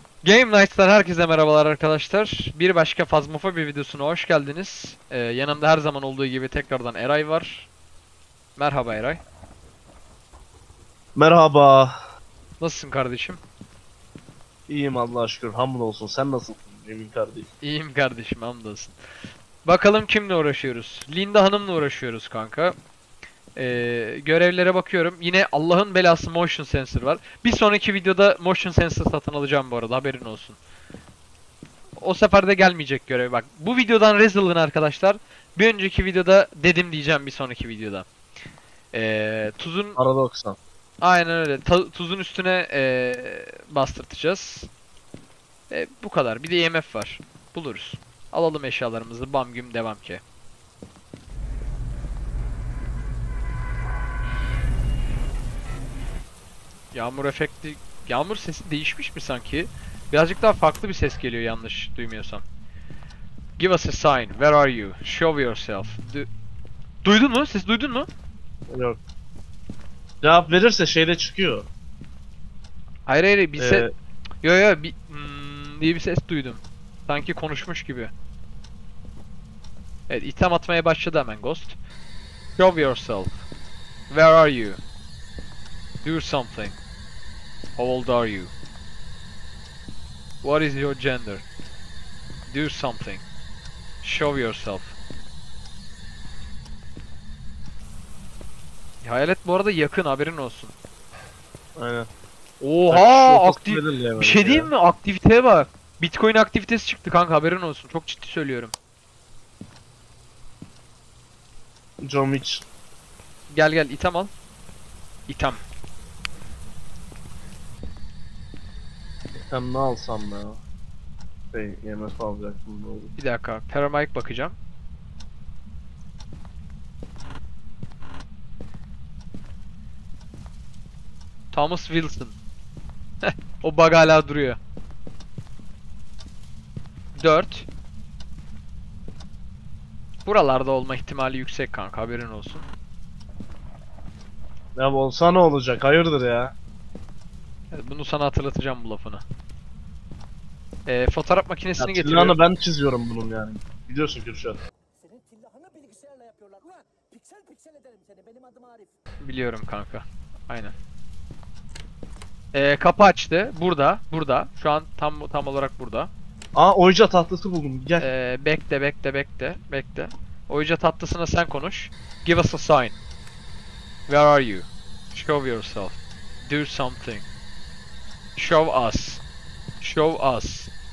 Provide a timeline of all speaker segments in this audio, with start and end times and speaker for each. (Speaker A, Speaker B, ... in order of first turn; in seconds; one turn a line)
Speaker A: 0.2-7.7
Speaker A: 8.6-9.2
Speaker B: 11.2-12.0
Speaker A: 12.6-13.4
Speaker B: 14.7-17.5
Speaker A: 17.6-19.0
Speaker A: 19.6-22.8
Speaker A: 23.6-30.6
Speaker A: 32.0-38.1
Speaker A: 38.9-40.0
Speaker B: 40.0-40.6
Speaker A: 41.0-44.7
Speaker A: 45.7-50.2
Speaker A: 56.9-62.4
Speaker A: 63.6-66.3
Speaker A: 67.0-68.1
Speaker B: 68.7-69.0
Speaker B: 70.2-71.7
Speaker A: 73.1-73.9
Speaker B: 73.6-73.9
Speaker A: 74.4-78.1
Speaker A: 80.1-81.8
Speaker A: 82.6-83.3
Speaker A: 84.1-84.8
Speaker A: 86.0-86.8
Speaker A: 87.8-88.5
Speaker A: 90.4-91.5
Speaker A: 92.5-93.2
Speaker A: 94.0-94.9
Speaker A: 99.0-100.7
Speaker B: 101.8-102.1
Speaker A: 102.6-108.7
Speaker B: 102.9-104.7
Speaker B: 112.0-112.7
Speaker A: 113.5-114.3
Speaker A: 115.3-115.6
Speaker B: 119.3-120.6
Speaker B: 121.5-123.1
Speaker A: 123.2-124.6
Speaker A: 131.5-132.3
Speaker A: 133.2-134.6
Speaker A: 137.2-137.7
Speaker A: 140.2-142.7
Speaker B: 144.8-146.5
Speaker A: 147.7-149.2
Speaker A: 150.9-152.4
Speaker B: 151.8-154.6
Speaker C: 155.0-158.9
Speaker A: 159.2-160.7
Speaker A: 162.5-166.1
Speaker B: 166.5-168.1
Speaker A: 168.0-173.0
Speaker A: 174.1-177.2
Speaker A: 178.4-179.2
Speaker A: 179.8-180.7